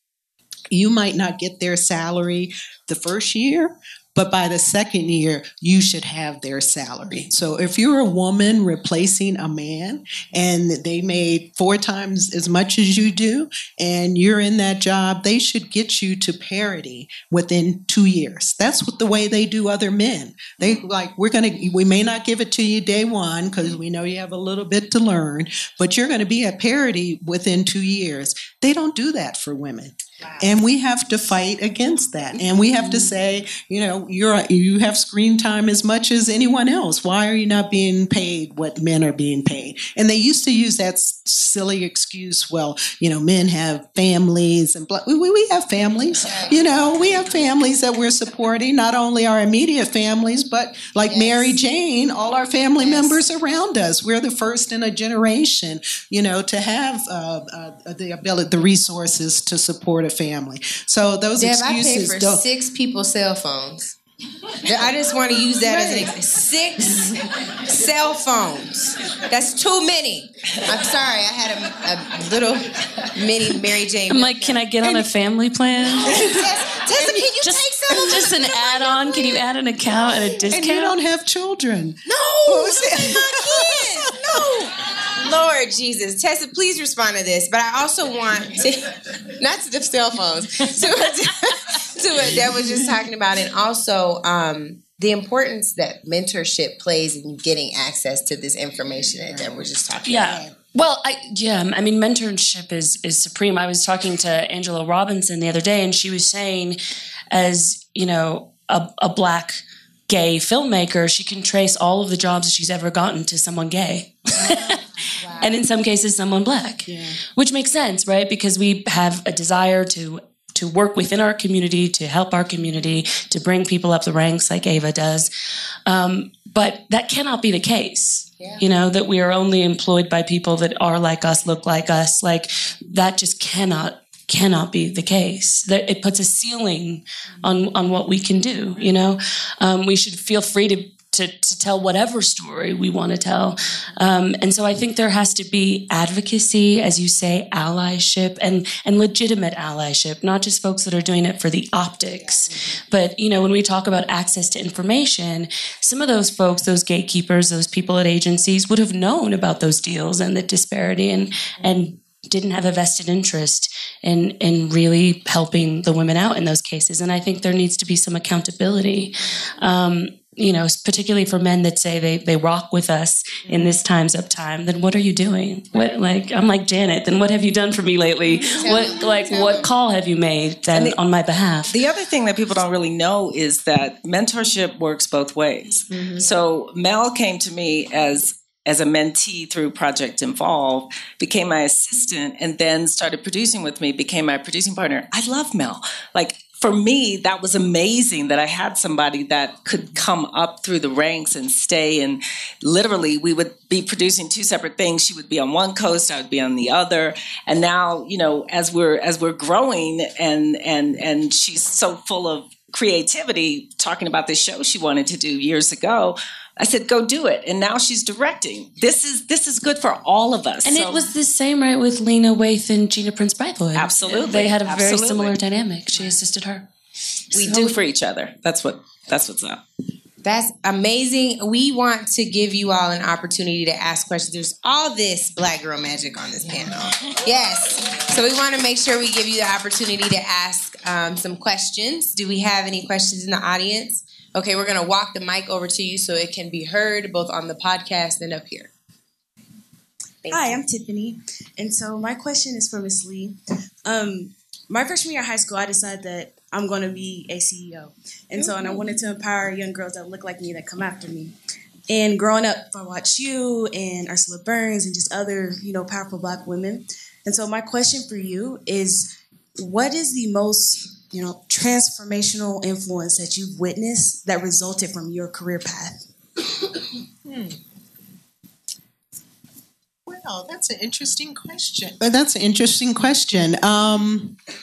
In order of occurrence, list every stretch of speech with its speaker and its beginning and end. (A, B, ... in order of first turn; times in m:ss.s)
0:00.7-1:02.4 A
0:46.2-0:46.6 B
0:51.0-0:51.6 B
0:52.8-0:53.2 B
1:01.4-1:03.9 B
1:04.6-1:15.0 B
1:05.6-1:06.1 A
1:14.1-1:16.3 C
1:16.0-1:17.4 A
1:16.1-1:19.2 B
1:17.4-1:21.0 C
1:17.9-1:18.2 A
1:20.5-1:24.4 A
1:22.0-1:40.4 B
1:39.3-1:40.4 A
1:40.1-1:46.8 C
1:47.3-2:05.3 C
1:56.9-1:57.2 A
2:05.8-3:01.7 C
2:58.4-2:59.7 B
3:00.7-3:01.0 D
3:01.7-3:41.1 D
3:40.6-3:46.6 C
3:43.7-3:45.4 D
3:47.3-3:49.6 D
3:47.3-3:47.7 C
3:50.2-4:08.7 B
4:10.2-4:10.6 B
4:10.3-4:21.3 E
4:21.9-4:36.0 E
4:37.3-4:37.5 A
4:40.0-4:44.4 A